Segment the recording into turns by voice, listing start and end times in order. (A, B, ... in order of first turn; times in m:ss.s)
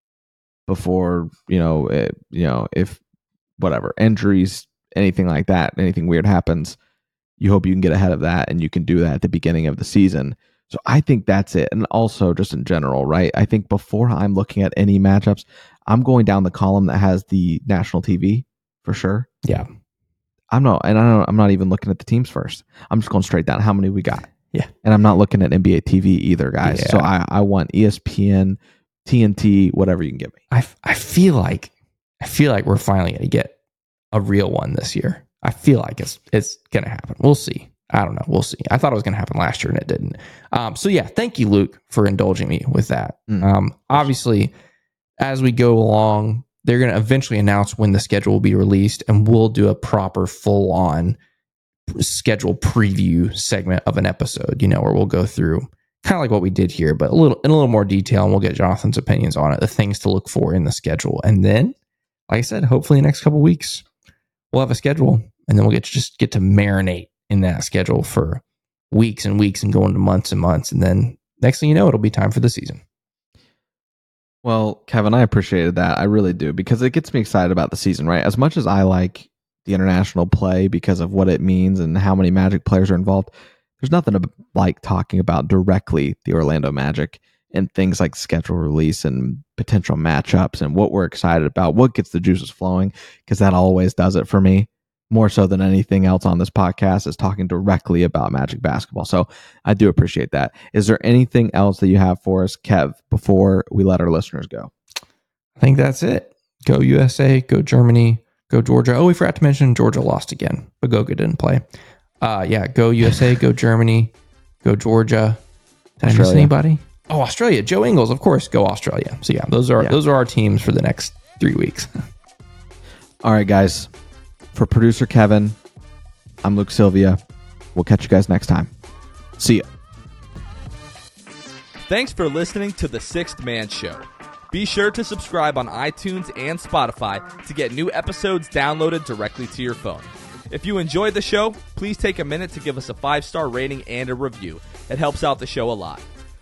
0:00.7-0:03.0 A
0:03.6-0:06.8 A
0:07.4-0:19.3 A
0:20.5-0:24.3 A
0:24.8-0:30.4 A
0:26.6-0:27.1 B
0:30.5-0:33.5 B
0:34.1-0:44.5 B
0:43.3-0:44.1 A
0:45.2-0:51.2 B
0:51.9-1:01.7 B
1:02.3-1:03.8 B
1:04.5-1:12.8 B
1:14.4-1:44.7 A
1:45.6-1:51.6 B
1:52.2-1:55.4 B
1:56.0-2:01.9 B
1:56.0-1:56.5 A
2:03.2-2:03.9 A
2:04.5-2:05.6 A
2:06.4-2:07.2 A
2:07.7-2:08.7 A
2:09.4-2:09.6 A
2:11.9-2:26.0 C